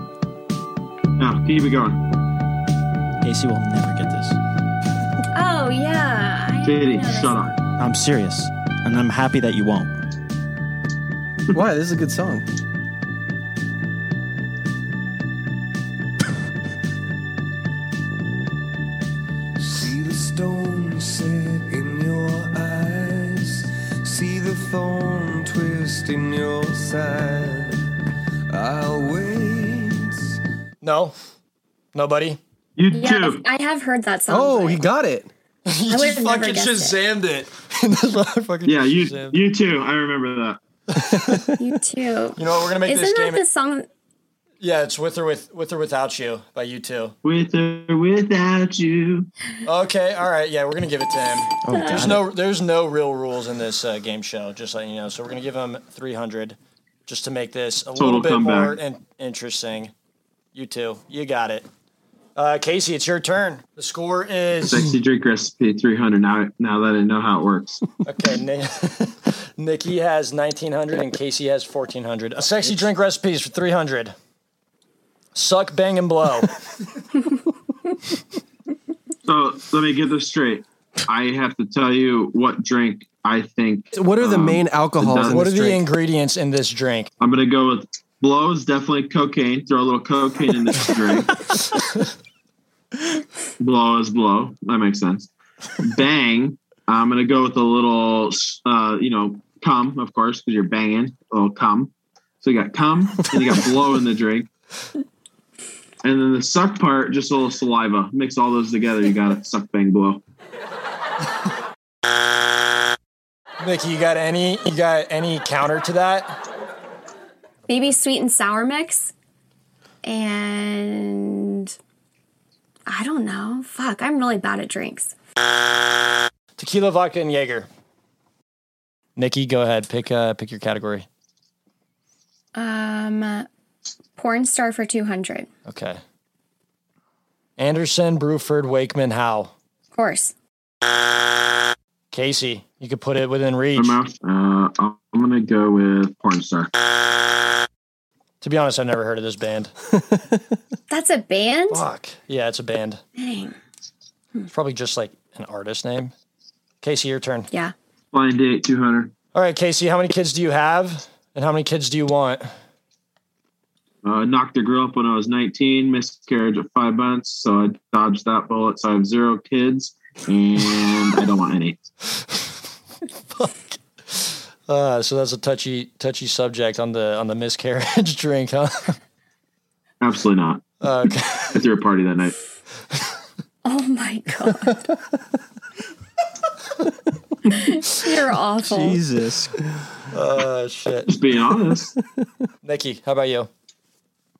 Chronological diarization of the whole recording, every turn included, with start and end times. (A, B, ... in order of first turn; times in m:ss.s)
0:01.2-0:02.0 A
0:03.2-0:04.4 B
0:05.3-0:07.5 C
0:06.6-0:07.6 A
0:07.8-0:10.0 B
0:11.5-0:12.4 D
0:19.6-0:27.9 E
0:28.5-0:30.4 E
0:30.8-0:31.1 F
0:31.9-0:32.4 F
0:32.8-0:33.4 A
0:32.9-0:34.8 C
0:34.3-0:35.3 D
0:35.7-0:39.4 F
0:35.9-0:37.0 C
0:38.6-0:40.6 A
0:40.9-0:41.6 F
0:41.6-0:43.9 C
0:42.4-0:43.4 F
0:44.6-0:47.1 F
0:47.2-0:49.3 A
0:49.6-0:59.9 F
0:51.6-0:52.2 B
0:51.7-0:52.1 C
0:58.0-0:58.8 A
1:00.5-1:01.7 F
1:02.4-1:04.9 F
1:04.6-1:07.8 A
1:08.0-1:14.1 F
1:15.3-1:16.5 F
1:19.2-1:25.4 A
1:23.9-1:25.8 D
1:25.2-1:27.1 F
1:27.2-1:31.4 A
1:33.6-1:44.5 A
1:46.0-1:50.2 A
1:53.6-1:56.4 F
1:57.7-1:59.1 C
2:00.0-2:01.7 C
2:02.9-2:05.1 C
2:06.6-2:07.7 F
2:09.2-2:11.1 F
2:12.5-2:13.5 C
2:14.2-2:15.5 C
2:15.7-2:16.0 F
2:17.6-2:19.5 F
2:19.9-2:20.3 C
2:22.1-2:24.0 F
2:23.8-2:26.7 A
2:28.4-2:29.7 F
2:30.9-2:31.8 C
2:31.7-2:33.0 F
2:33.2-2:33.5 C
2:34.5-2:36.1 F
2:36.8-2:37.5 F
2:38.1-2:39.1 A
2:39.3-2:42.5 F
2:44.0-2:51.8 A
2:53.3-2:59.0 F
3:00.0-3:00.7 A
3:00.8-3:01.6 F
3:01.5-3:02.3 A
3:03.6-3:04.9 C
3:07.5-3:09.0 C
3:08.6-3:09.6 B
3:10.1-3:11.1 F
3:11.1-3:11.9 A
3:12.6-3:13.5 F